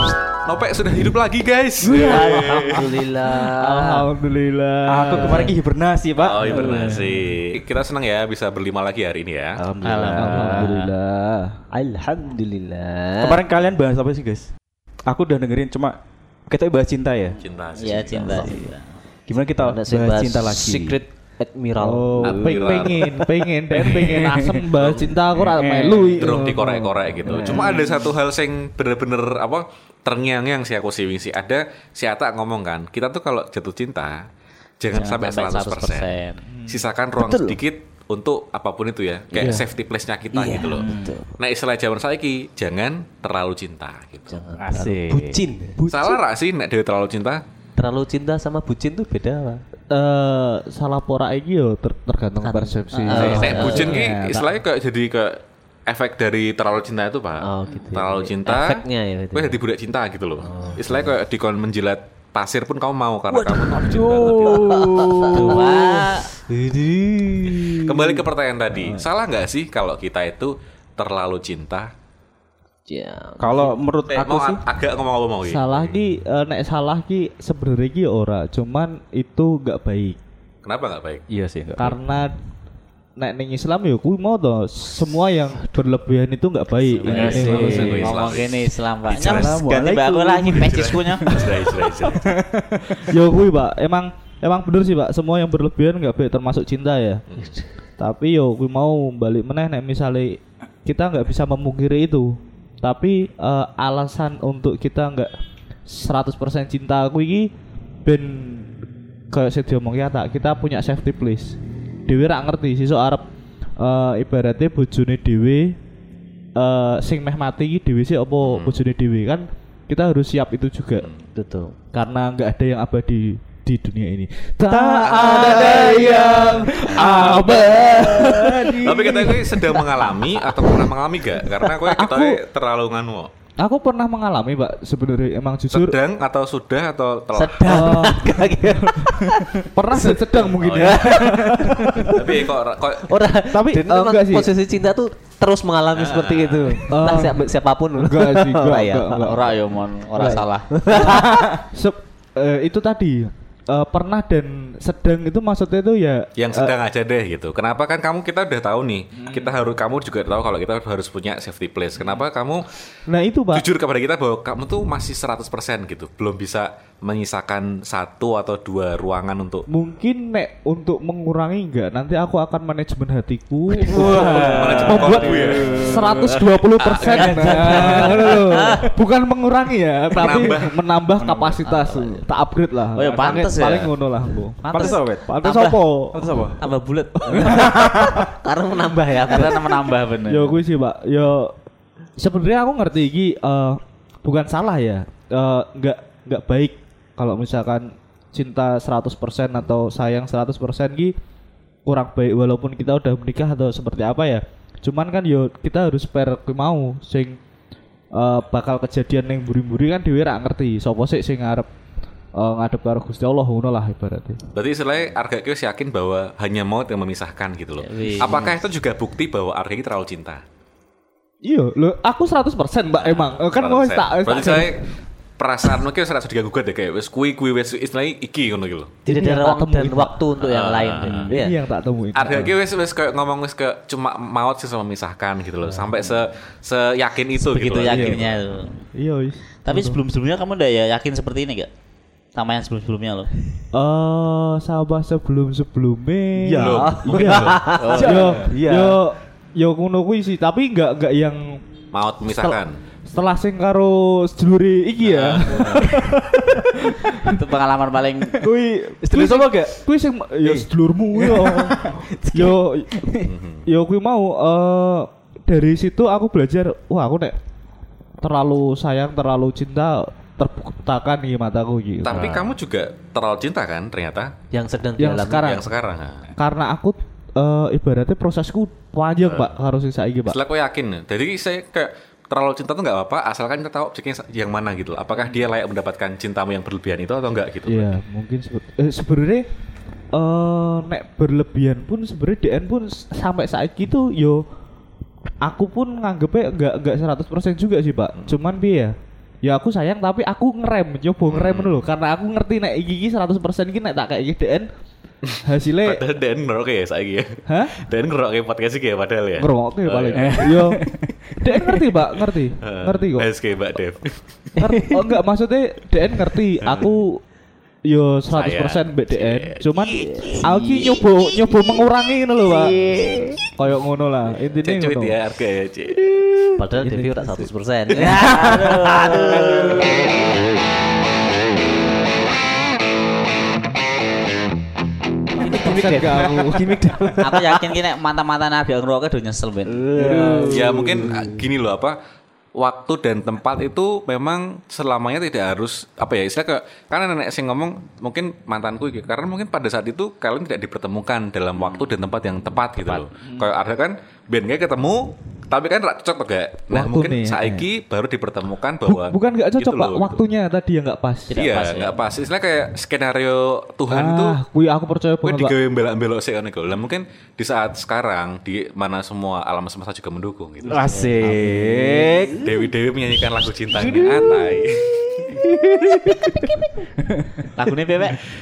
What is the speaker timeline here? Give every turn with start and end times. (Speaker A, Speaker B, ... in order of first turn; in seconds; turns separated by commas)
Speaker A: 0.4-3.0, Speaker B: 1.8-2.8, Speaker C: 1.9-4.1, Speaker D: 3.5-5.5, Speaker B: 4.9-7.2, Speaker A: 6.2-9.6, Speaker B: 9.6-10.9, Speaker C: 9.7-10.8, Speaker E: 9.8-10.9, Speaker D: 10.2-11.4, Speaker C: 11.7-13.4, Speaker B: 13.2-14.5, Speaker B: 15.1-16.0, Speaker B: 16.5-17.4, Speaker A: 17.4-18.4, Speaker E: 17.7-18.8, Speaker C: 17.9-18.7, Speaker B: 19.3-21.0, Speaker C: 19.6-22.7, Speaker D: 21.8-27.7, Speaker A: 22.2-23.0, Speaker B: 22.4-26.4, Speaker A: 24.8-25.1, Speaker A: 26.1-34.3, Speaker B: 27.3-28.1, Speaker A: 34.8-44.4, Speaker E: 34.9-36.4, Speaker C: 37.2-37.6, Speaker D: 39.4-39.6, Speaker C: 40.3-41.3, Speaker B: 40.7-41.2, Speaker C: 44.3-46.2, Speaker B: 44.6-45.9, Speaker A: 45.9-47.4, Speaker C: 47.8-49.6, Speaker D: 49.9-54.5, Speaker C: 52.5-54.0, Speaker E: 53.1-53.9, Speaker A: 53.2-64.9, Speaker C: 57.4-59.6, Speaker C: 60.4-61.1, Speaker C: 63.3-68.2, Speaker B: 63.7-65.8, Speaker E: 65.3-66.3, Speaker A: 67.6-71.9, Speaker C: 72.9-73.8, Speaker B: 73.4-74.6, Speaker A: 74.1-75.9, Speaker D: 75.4-80.2, Speaker A: 80.6-81.2, Speaker B: 81.3-82.0, Speaker D: 81.8-82.3, Speaker D: 83.2-88.1, Speaker E: 86.9-91.5, Speaker A: 87.0-92.3, Speaker B: 87.0-88.2, Speaker B: 91.3-93.1, Speaker D: 93.0-97.2, Speaker A: 97.3-97.6, Speaker D: 98.0-105.3, Speaker D: 105.9-107.5, Speaker D: 108.0-108.7, Speaker D: 109.3-113.2, Speaker D: 113.8-115.8, Speaker D: 116.5-121.1, Speaker A: 118.4-118.8, Speaker A: 121.0-121.2, Speaker C: 121.3-121.8, Speaker D: 121.9-129.8, Speaker C: 124.7-129.6, Speaker A: 125.0-125.4, Speaker B: 127.0-127.4, Speaker A: 127.0-127.5, Speaker A: 128.7-133.3, Speaker C: 130.5-130.8, Speaker D: 131.8-132.4, Speaker D: 133.6-136.0, Speaker A: 135.7-138.1, Speaker C: 137.3-149.5, Speaker D: 137.6-138.8, Speaker D: 139.7-142.3, Speaker A: 140.4-141.2, Speaker A: 142.0-143.1, Speaker D: 143.5-144.5, Speaker A: 145.9-146.8, Speaker D: 146.9-149.6, Speaker E: 149.2-150.7, Speaker D: 150.2-156.7, Speaker C: 150.3-151.5, Speaker A: 156.4-162.7, Speaker D: 163.1-163.7, Speaker A: 163.5-169.7, Speaker D: 169.7-186.3, Speaker B: 173.8-176.4, Speaker E: 174.0-178.9, Speaker A: 174.0-176.0, Speaker A: 176.7-178.3, Speaker B: 177.1-178.4, Speaker A: 180.1-180.8, Speaker E: 181.2-182.3, Speaker E: 182.9-184.0, Speaker E: 184.6-185.9, Speaker B: 184.7-185.3, Speaker B: 186.1-186.7, Speaker E: 186.6-187.9, Speaker D: 187.2-187.8, Speaker C: 187.3-189.7, Speaker E: 189.2-190.6, Speaker D: 190.2-191.5, Speaker D: 192.2-201.1, Speaker D: 201.9-207.4, Speaker D: 208.1-211.7, Speaker D: 212.3-214.4, Speaker A: 214.5-220.4, Speaker E: 217.8-218.6, Speaker D: 221.4-224.9, Speaker A: 223.0-229.0, Speaker D: 229.1-230.2, Speaker C: 229.1-231.6, Speaker A: 230.4-231.3, Speaker D: 231.1-232.5, Speaker A: 232.1-238.4, Speaker E: 237.4-238.8, Speaker D: 238.9-240.0, Speaker E: 239.6-241.7, Speaker E: 242.3-243.3, Speaker D: 243.7-251.6, Speaker C: 246.4-249.0, Speaker A: 246.6-247.6, Speaker E: 247.8-248.4, Speaker B: 247.9-248.5, Speaker A: 251.9-252.8, Speaker D: 252.2-257.4, Speaker A: 255.0-255.9, Speaker E: 257.1-258.4, Speaker D: 258.4-267.3, Speaker B: 259.0-259.8, Speaker B: 260.4-263.3, Speaker A: 263.2-263.7, Speaker D: 268.2-272.3, Speaker A: 272.0-274.3, Speaker C: 274.5-275.6, Speaker D: 275.0-275.7, Speaker A: 275.4-276.3, Speaker D: 276.4-280.4, Speaker A: 279.2-279.5, Speaker A: 280.3-287.9, Speaker D: 287.6-289.4, Speaker D: 290.1-294.4, Speaker D: 295.4-304.7, Speaker A: 301.2-301.9, Speaker A: 305.3-310.6, Speaker D: 305.4-306.0, Speaker D: 307.4-307.8, Speaker D: 309.4-310.8, Speaker B: 310.1-311.8, Speaker D: 311.4-313.3, Speaker A: 312.6-314.6, Speaker B: 314.6-315.1, Speaker D: 314.6-317.2, Speaker A: 316.6-316.9, Speaker D: 317.9-322.8, Speaker A: 318.3-320.5, Speaker C: 320.0-320.8, Speaker C: 322.7-323.4, Speaker D: 323.5-325.2, Speaker A: 324.6-326.2, Speaker C: 326.6-329.7, Speaker D: 326.7-327.4, Speaker E: 328.0-329.8, Speaker C: 335.4-337.5, Speaker D: 335.4-337.1, Speaker E: 337.2-339.9, Speaker C: 339.7-341.1, Speaker B: 339.9-341.2, Speaker D: 340.0-340.5, Speaker A: 340.5-342.0, Speaker A: 342.5-360.2, Speaker D: 356.7-357.7, Speaker D: 358.8-361.4, Speaker E: 361.3-362.0, Speaker A: 361.4-364.4, Speaker D: 363.9-365.6, Speaker A: 365.2-371.1, Speaker B: 370.6-372.5, Speaker E: 370.9-371.3, Speaker C: 371.2-372.3, Speaker A: 372.4-375.3, Speaker B: 373.7-374.5, Speaker B: 375.2-377.6, Speaker E: 377.6-378.2